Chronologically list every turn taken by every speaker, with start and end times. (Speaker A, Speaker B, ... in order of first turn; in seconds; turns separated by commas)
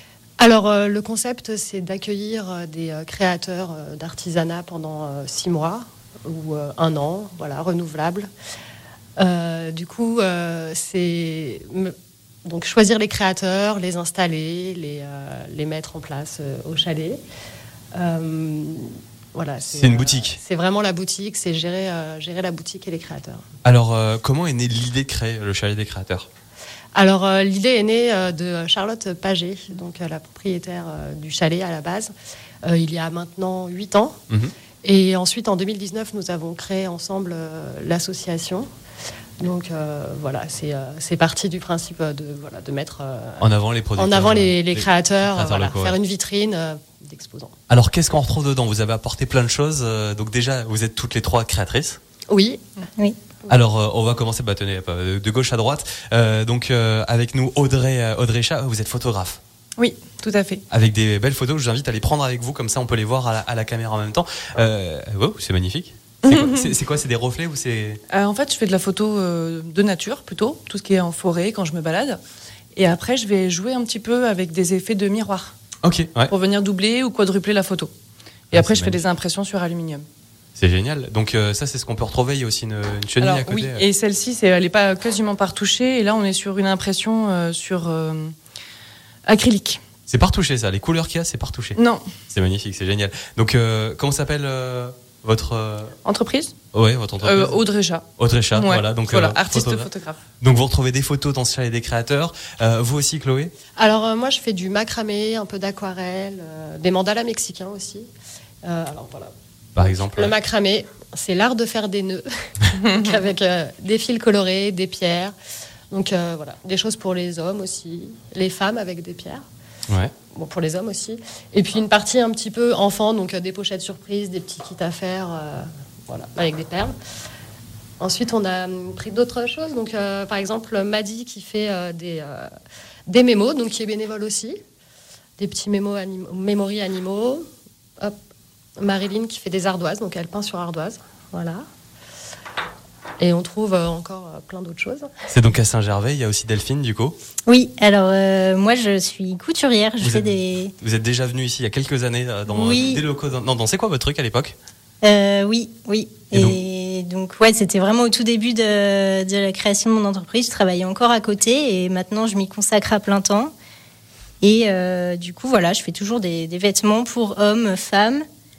Speaker A: 0.4-8.3, Speaker A: 9.2-11.9, Speaker A: 12.4-17.2, Speaker A: 17.9-23.4, Speaker B: 19.7-20.4, Speaker B: 23.6-26.3, Speaker A: 26.9-32.1, Speaker A: 32.6-34.2, Speaker A: 34.8-38.7, Speaker A: 39.4-47.5, Speaker B: 43.4-46.0, Speaker B: 47.7-52.0, Speaker A: 52.3-52.6, Speaker B: 53.5-59.4, Speaker C: 59.8-60.6, Speaker B: 60.7-68.0, Speaker C: 66.2-66.7, Speaker C: 68.1-72.2, Speaker C: 72.8-75.6, Speaker B: 75.8-76.3, Speaker C: 76.3-77.9, Speaker B: 78.5-79.0, Speaker C: 78.5-80.1, Speaker B: 80.6-83.8, Speaker C: 83.2-88.3, Speaker C: 89.3-89.8, Speaker B: 90.1-91.8, Speaker C: 91.8-92.1, Speaker B: 92.3-96.0, Speaker C: 96.0-96.5, Speaker B: 96.7-97.6, Speaker C: 97.2-100.2, Speaker B: 98.2-99.9, Speaker B: 100.4-103.5, Speaker A: 103.8-108.1, Speaker A: 108.6-115.3, Speaker B: 109.8-110.3, Speaker C: 112.8-113.0, Speaker A: 115.9-119.4, Speaker A: 120.3-126.9, Speaker A: 128.0-132.5, Speaker A: 133.1-134.6, Speaker A: 135.4-137.4, Speaker A: 138.8-141.6, Speaker A: 143.2-145.1, Speaker B: 145.3-147.2, Speaker D: 147.5-150.7, Speaker B: 150.0-154.6, Speaker D: 152.5-153.0, Speaker D: 155.0-163.5, Speaker B: 156.3-156.6, Speaker D: 164.4-168.2